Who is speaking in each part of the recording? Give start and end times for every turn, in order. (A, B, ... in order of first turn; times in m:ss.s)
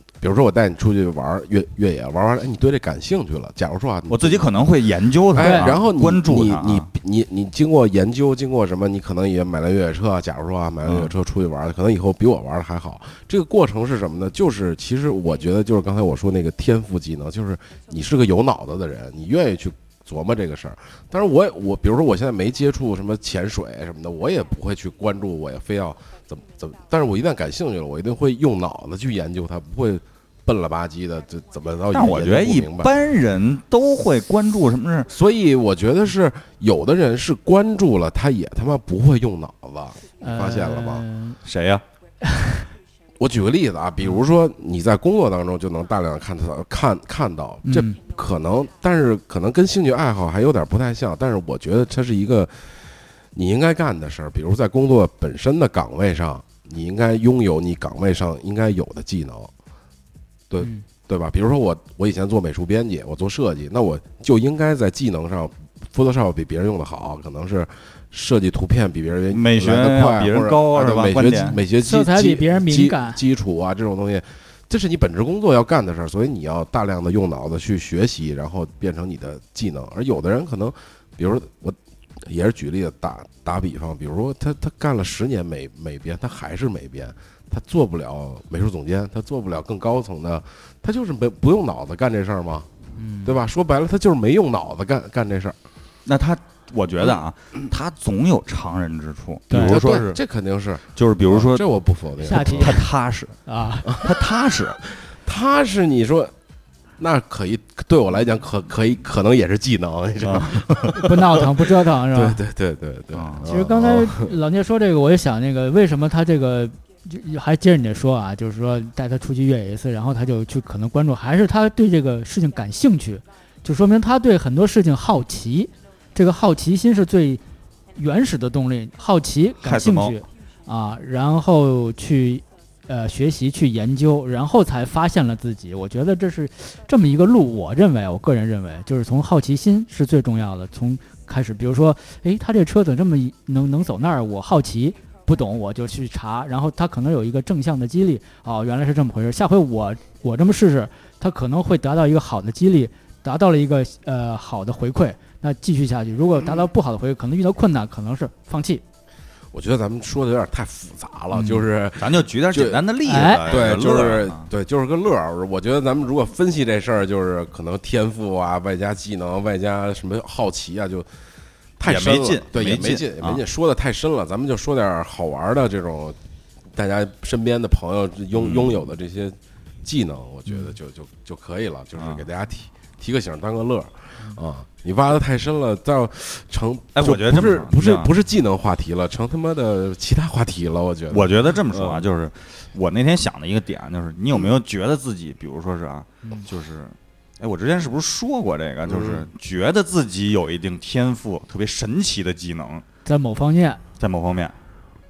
0:00.2-0:04.5 A
0:04.1-0:06.9 B
0:05.3-0:33.0 A
0:05.4-0:05.7 C
0:10.8-0:11.1 B
0:31.9-0:35.1 B
0:35.1-0:41.0 A
0:40.2-0:41.4 C
0:41.4-0:41.8 B
0:42.2-0:42.6 C
0:43.2-0:52.8 A
0:47.6-0:48.0 C
0:53.3-0:59.5 A
1:00.5-1:32.7 A
1:09.3-1:11.6 B
1:11.7-1:13.2 C
1:33.0-1:33.4 C
1:33.2-1:35.6 A
1:36.1-1:40.2 B
1:39.5-1:39.8 C
1:39.5-1:42.8 A
1:41.0-1:41.7 B
1:42.3-1:42.9 C
1:42.3-1:43.4 B
1:43.5-1:44.0 C
1:44.0-1:44.8 B
1:44.9-1:46.3 A
1:47.0-1:51.5 A
1:50.2-1:51.0 B
1:51.0-1:52.4 C
1:52.0-1:54.4 A
1:53.1-1:53.5 B
1:53.5-2:07.4 C
2:08.0-2:38.8 C
2:09.6-2:10.2 B
2:39.5-2:42.9 A
2:41.3-2:41.6 C
2:42.0-2:44.5 B
2:43.1-2:43.4 C
2:43.4-2:51.1 A
2:51.8-2:56.2 A
2:51.8-2:53.4 B
2:56.7-3:12.1 A
2:58.4-2:58.8 B
3:02.0-3:02.2 B
3:07.0-3:08.1 B
3:11.1-3:22.8 B
3:18.9-3:19.3 A
3:23.1-3:23.8 C
3:24.0-3:24.6 B